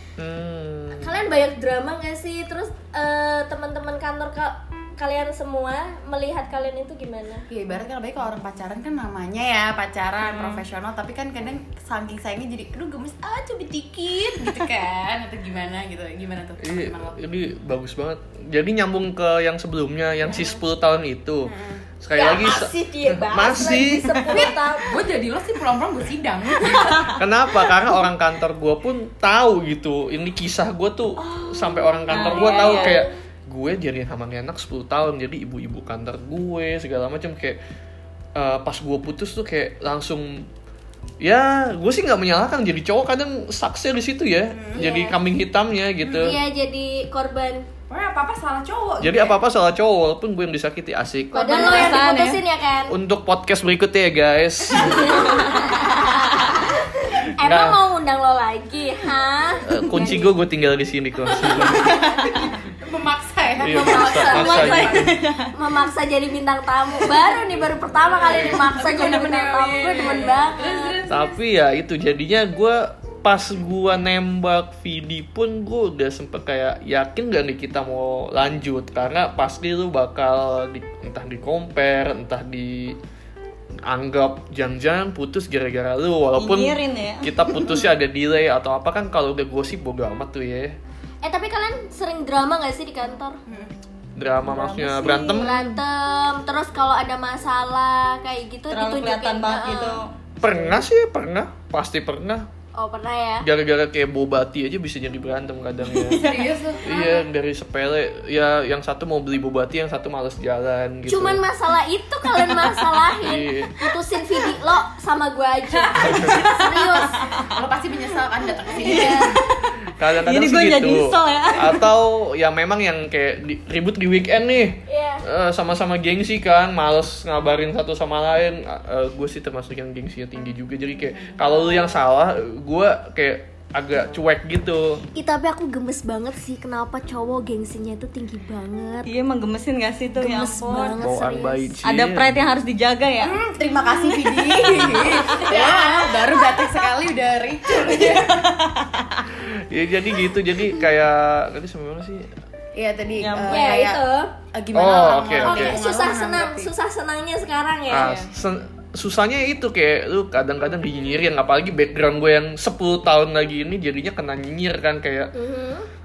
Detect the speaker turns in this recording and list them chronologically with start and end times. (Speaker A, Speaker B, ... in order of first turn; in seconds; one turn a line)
Speaker A: 0.2-1.1
Speaker B: 0.9-7.5
Speaker C: 7.5-17.2
Speaker D: 10.3-10.6
Speaker A: 16.6-24.1
Speaker C: 21.5-21.9
Speaker B: 22.1-25.0
Speaker D: 24.1-24.5
Speaker C: 24.4-27.2
Speaker D: 26.6-27.8
Speaker A: 27.2-37.6
Speaker D: 32.1-33.0
Speaker B: 32.1-33.1
Speaker A: 38.4-40.5
Speaker A: 41.2-46.4
Speaker C: 44.5-45.0
Speaker B: 44.8-45.2
Speaker C: 46.0-46.4
Speaker B: 46.2-47.7
Speaker C: 47.9-49.4
Speaker A: 49.0-52.0
Speaker B: 51.3-53.0
Speaker D: 51.4-52.4
Speaker A: 52.9-55.8
Speaker B: 54.8-60.3
Speaker A: 56.5-57.8
Speaker A: 59.7-62.0
Speaker C: 61.3-65.2
Speaker D: 61.6-62.3
Speaker A: 63.6-65.2
Speaker B: 63.7-71.0
Speaker D: 64.3-65.5
Speaker C: 68.1-71.3
Speaker A: 71.1-83.0
Speaker A: 83.8-90.8
Speaker D: 86.4-87.8
Speaker B: 91.2-93.4
Speaker C: 93.5-93.7
Speaker A: 94.2-95.7
Speaker D: 94.4-95.6
Speaker B: 95.0-100.0
Speaker D: 98.7-100.5
Speaker A: 100.4-102.5
Speaker B: 102.8-103.5
Speaker A: 103.4-106.2
Speaker D: 105.8-106.6
Speaker C: 106.1-106.8
Speaker A: 106.8-111.4
Speaker B: 106.8-107.2
Speaker B: 111.1-117.2
Speaker A: 113.2-113.7
Speaker C: 115.9-116.6
Speaker A: 116.0-116.4
Speaker D: 116.3-117.2
Speaker C: 117.5-119.5
Speaker D: 118.8-119.5
Speaker B: 118.8-119.3
Speaker A: 119.9-135.1
Speaker D: 120.2-121.9
Speaker B: 124.9-125.2
Speaker C: 131.2-131.9
Speaker B: 135.2-139.1
Speaker D: 139.1-141.0
Speaker B: 140.2-141.8
Speaker A: 141.0-142.5
Speaker D: 141.8-143.3
Speaker C: 143.2-148.5
Speaker D: 144.0-145.3
Speaker B: 144.9-146.9
Speaker D: 147.8-149.2
Speaker A: 149.3-152.3
Speaker C: 152.7-154.0
Speaker D: 153.2-153.7
Speaker B: 153.5-154.3
Speaker C: 154.5-156.7
Speaker A: 154.7-155.8
Speaker B: 155.4-158.2
Speaker A: 157.9-165.3
Speaker B: 165.3-165.9